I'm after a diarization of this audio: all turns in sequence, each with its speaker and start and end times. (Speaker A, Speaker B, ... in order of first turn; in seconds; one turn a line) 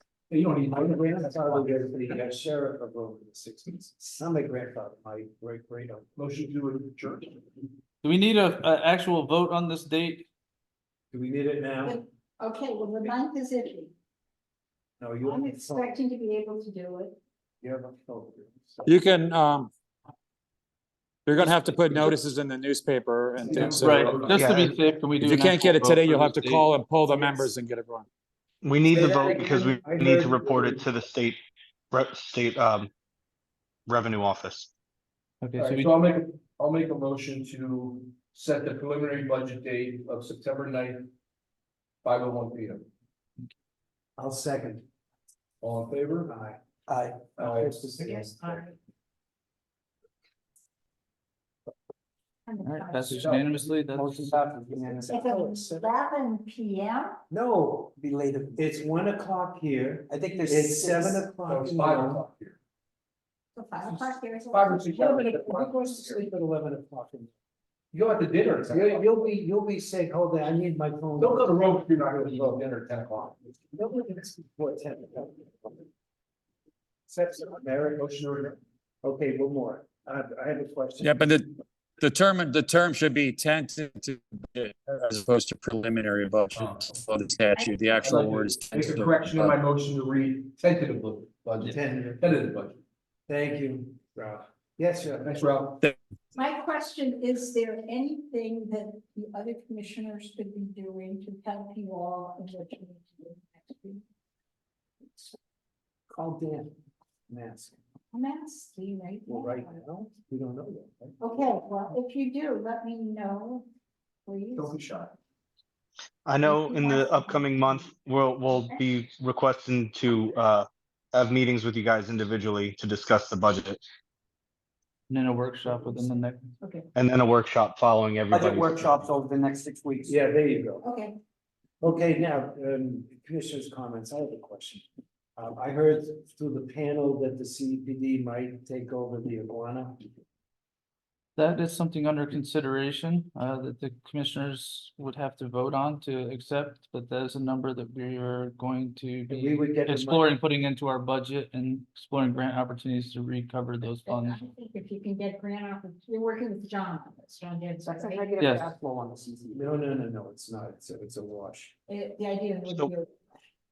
Speaker A: 0.3-1.9
Speaker B: 0.7-6.1
Speaker A: 6.2-7.4
Speaker C: 8.0-10.3
Speaker B: 11.1-12.0
Speaker D: 11.8-13.9
Speaker B: 15.0-16.0
Speaker D: 15.2-17.2
Speaker B: 17.6-18.9
Speaker E: 18.9-19.7
Speaker E: 21.3-24.2
Speaker B: 21.4-22.0
Speaker A: 23.4-24.4
Speaker B: 23.4-23.8
Speaker C: 23.8-26.7
Speaker F: 24.3-24.8
Speaker E: 25.2-28.1
Speaker F: 28.6-31.4
Speaker B: 28.9-30.8
Speaker F: 31.9-32.9
Speaker F: 33.9-34.7
Speaker C: 35.4-35.9
Speaker A: 35.6-41.1
Speaker A: 42.0-42.9
Speaker B: 44.2-44.8
Speaker A: 45.6-46.3
Speaker B: 46.2-46.6
Speaker G: 46.9-48.0
Speaker A: 47.4-48.0
Speaker B: 47.4-48.6
Speaker D: 48.0-48.7
Speaker D: 52.5-53.3
Speaker C: 52.6-54.3
Speaker A: 53.2-53.6
Speaker G: 54.0-55.2
Speaker B: 54.0-55.9
Speaker D: 55.1-57.2
Speaker B: 57.3-57.9
Speaker G: 58.0-58.8
Speaker B: 58.6-62.2
Speaker G: 60.1-61.3
Speaker A: 61.4-62.6
Speaker D: 63.5-65.2
Speaker A: 63.8-66.2
Speaker B: 64.9-67.3
Speaker A: 67.9-69.0
Speaker B: 68.7-71.5
Speaker A: 71.2-73.5
Speaker B: 73.7-75.7
Speaker B: 77.1-78.1
Speaker A: 78.0-78.6
Speaker B: 79.0-81.3
Speaker E: 81.0-89.5
Speaker A: 86.5-87.0
Speaker A: 88.0-92.8
Speaker B: 91.6-92.3
Speaker B: 93.3-95.4
Speaker A: 95.2-95.9
Speaker D: 96.3-104.0
Speaker B: 106.1-106.8
Speaker B: 107.3-107.8
Speaker D: 108.1-109.8
Speaker B: 109.3-111.2
Speaker D: 111.2-113.7
Speaker D: 114.2-114.8
Speaker A: 114.5-115.1
Speaker F: 116.2-123.8
Speaker D: 116.4-117.9
Speaker D: 118.5-118.8
Speaker C: 125.1-126.5
Speaker D: 126.6-126.9
Speaker F: 127.0-129.1
Speaker G: 128.3-130.2
Speaker B: 130.1-130.8
Speaker D: 130.8-131.2
Speaker B: 131.8-134.8
Speaker B: 135.4-140.0
Speaker C: 141.4-154.4
Speaker B: 149.3-150.3
Speaker D: 154.1-158.3
Speaker G: 157.8-159.7
Speaker C: 158.4-158.7
Speaker B: 159.5-161.7
Speaker D: 161.9-163.3
Speaker F: 162.7-162.9